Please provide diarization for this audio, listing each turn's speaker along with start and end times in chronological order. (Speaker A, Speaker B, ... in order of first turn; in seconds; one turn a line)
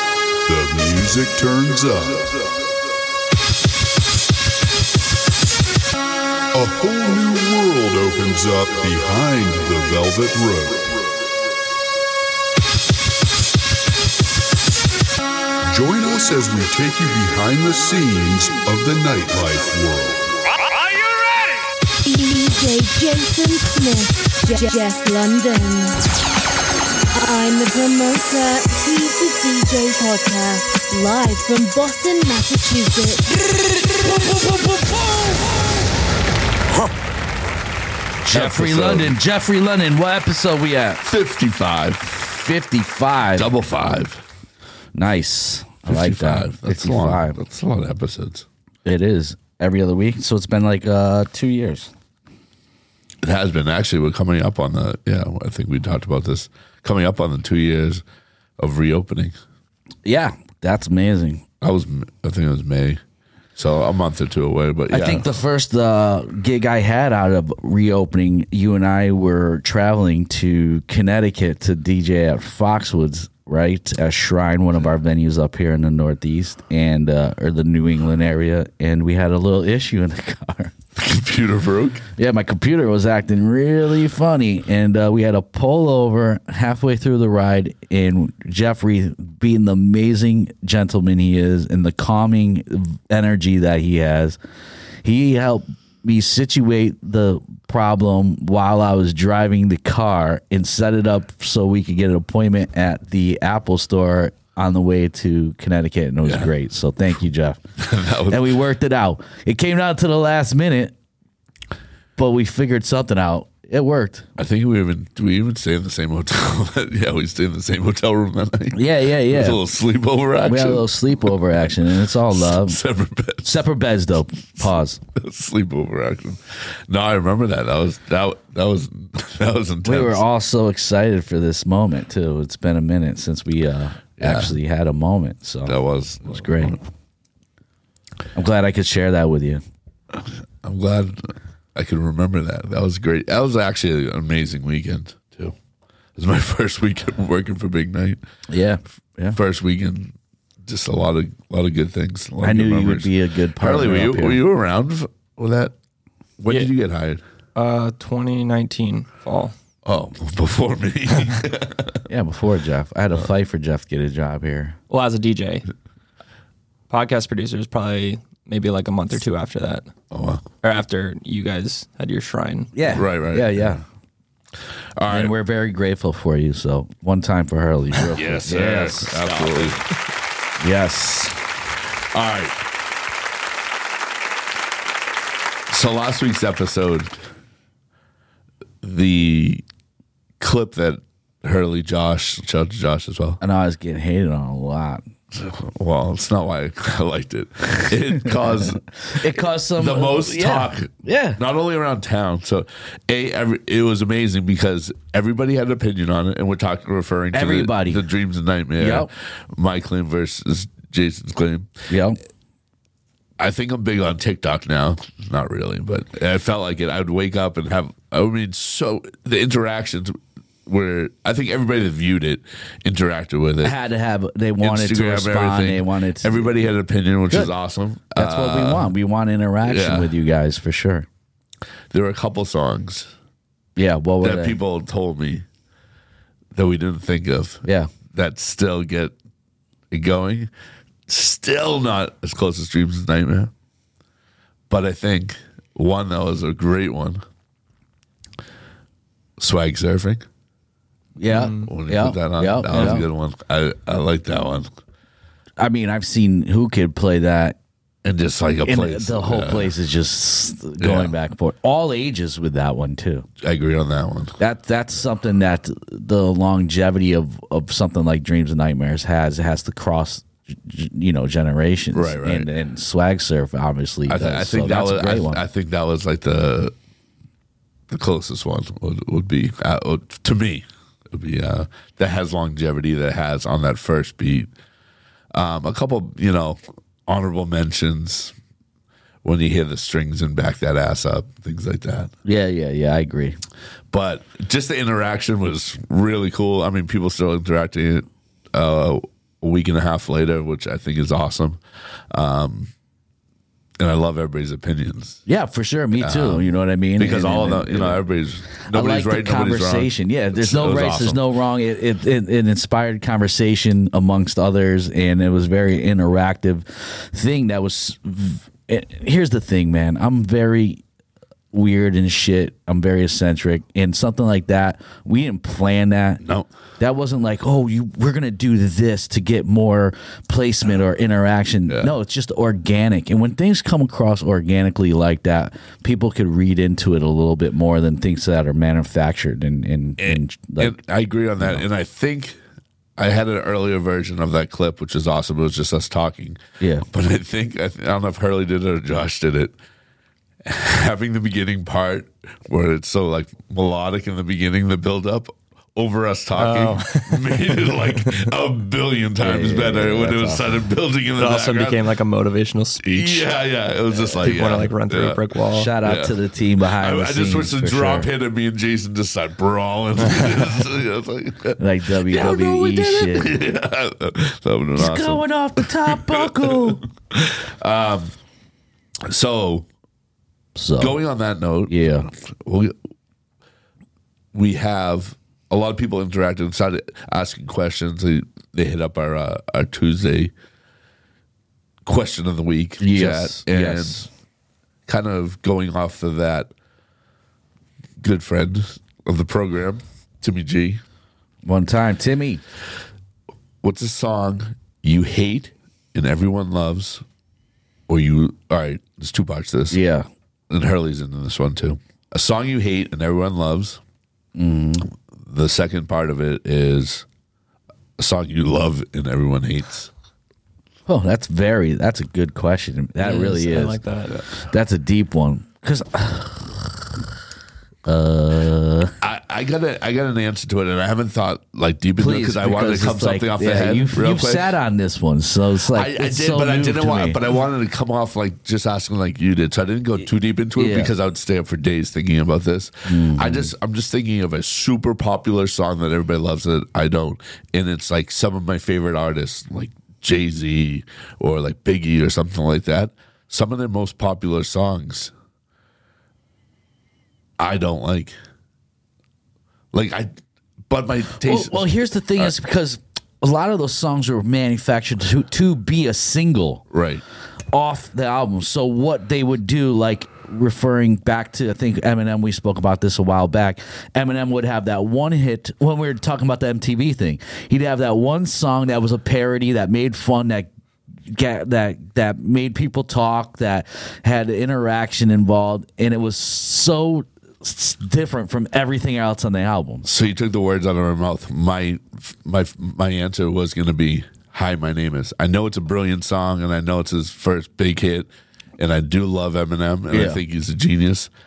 Speaker A: 0.5-2.3
Speaker A: 6.5-10.9
Speaker A: 15.6-20.3
Speaker B: 22.0-26.0
Speaker B: 27.1-33.3
Speaker C: 38.2-41.0
Speaker D: 38.3-39.1
Speaker D: 41.0-42.4
Speaker C: 42.3-43.5
Speaker D: 43.3-44.2
Speaker C: 44.9-47.4
Speaker D: 45.9-48.5
Speaker C: 48.8-51.9
Speaker D: 53.2-58.0
Speaker D: 58.6-59.4
Speaker C: 60.0-61.4
Speaker D: 61.6-63.0
Speaker D: 63.5-65.3
Speaker C: 64.9-80.7
Speaker D: 81.0-82.0
Speaker C: 82.2-94.4
Speaker C: 95.0-107.6
Speaker D: 106.2-106.5
Speaker D: 107.8-108.5
Speaker C: 108.3-110.9
Speaker C: 112.2-114.3
Speaker D: 114.4-121.3
Speaker C: 118.7-119.6
Speaker C: 120.4-122.8
Speaker D: 121.9-123.6
Speaker C: 123.4-125.0
Speaker D: 125.1-130.2
Speaker C: 129.8-136.8
Speaker D: 134.2-134.5
Speaker D: 135.7-136.8
Speaker C: 138.3-139.6
Speaker D: 140.2-145.6
Speaker D: 146.2-148.2
Speaker C: 148.5-149.4
Speaker D: 149.3-155.7
Speaker C: 152.4-154.4
Speaker D: 156.4-157.2
Speaker E: 157.6-159.5
Speaker D: 159.8-162.0
Speaker C: 162.1-164.7
Speaker E: 164.9-165.7
Speaker E: 166.9-169.9
Speaker D: 170.1-170.4
Speaker E: 170.6-172.7
Speaker C: 172.7-173.8
Speaker D: 172.9-173.7
Speaker D: 174.9-175.3
Speaker C: 175.1-179.2
Speaker D: 178.1-179.8
Speaker E: 179.1-179.8
Speaker C: 180.6-181.4
Speaker D: 182.1-182.6
Speaker D: 185.7-187.2
Speaker D: 188.8-189.6
Speaker D: 190.4-193.4
Speaker C: 193.4-195.0
Speaker D: 195.3-198.8
Speaker C: 199.0-201.4
Speaker D: 199.7-211.7
Speaker C: 207.3-208.0
Speaker C: 208.8-209.1
Speaker C: 211.9-212.2
Speaker D: 213.4-223.8
Speaker C: 223.6-226.7
Speaker D: 224.6-228.9
Speaker C: 228.1-231.1
Speaker D: 229.6-230.1
Speaker D: 231.9-233.1
Speaker C: 233.8-234.6
Speaker D: 234.2-235.4
Speaker D: 236.5-239.1
Speaker C: 237.6-237.9
Speaker D: 239.9-240.5
Speaker D: 241.1-243.5
Speaker D: 244.7-247.2
Speaker D: 249.4-250.2
Speaker C: 251.2-253.1
Speaker E: 251.3-251.7
Speaker D: 251.6-254.7
Speaker C: 255.6-257.6
Speaker D: 258.0-259.7
Speaker C: 258.6-263.3
Speaker D: 260.8-261.1
Speaker D: 263.4-264.4
Speaker C: 264.4-275.4
Speaker D: 271.9-272.5
Speaker D: 274.1-276.7
Speaker D: 277.9-284.5
Speaker D: 285.3-288.3
Speaker D: 289.2-292.1
Speaker C: 292.2-293.4
Speaker D: 293.9-301.6
Speaker D: 302.1-302.7
Speaker D: 303.8-305.2
Speaker C: 305.2-308.0
Speaker D: 305.9-306.4
Speaker D: 307.0-311.2
Speaker C: 308.6-320.8
Speaker C: 321.5-326.2
Speaker D: 326.2-326.5
Speaker C: 326.8-340.8
Speaker D: 331.7-331.9
Speaker D: 340.0-342.4
Speaker C: 341.4-341.6
Speaker D: 343.0-349.5
Speaker C: 346.6-346.8
Speaker D: 350.4-361.8
Speaker E: 356.3-358.3
Speaker C: 359.2-360.4
Speaker E: 361.2-363.3
Speaker D: 362.8-365.2
Speaker E: 363.9-365.7
Speaker C: 365.5-368.1
Speaker D: 365.8-366.1
Speaker D: 366.7-378.1
Speaker C: 371.6-373.4
Speaker C: 374.8-376.8
Speaker D: 379.0-379.7
Speaker C: 380.6-381.0
Speaker D: 380.8-382.8
Speaker C: 381.7-382.1
Speaker D: 384.3-390.3
Speaker D: 391.8-394.0
Speaker C: 392.8-394.1
Speaker D: 394.9-396.5
Speaker D: 398.0-400.8
Speaker C: 401.4-402.4
Speaker D: 403.6-407.0
Speaker D: 407.9-409.8
Speaker C: 409.7-410.1
Speaker D: 410.5-413.8
Speaker C: 414.3-414.9
Speaker D: 415.2-417.1
Speaker D: 418.0-419.9
Speaker C: 420.9-423.8
Speaker E: 423.0-424.2
Speaker C: 424.3-427.0
Speaker C: 427.8-428.9
Speaker D: 429.0-434.6
Speaker C: 432.0-437.2
Speaker D: 435.7-455.1
Speaker C: 440.6-440.9
Speaker C: 442.9-443.5
Speaker D: 457.4-458.1
Speaker D: 459.7-460.1
Speaker D: 460.7-461.6
Speaker C: 461.2-466.6
Speaker D: 466.7-467.0
Speaker C: 467.5-480.5
Speaker C: 481.1-489.9
Speaker D: 489.8-501.1
Speaker C: 499.9-500.2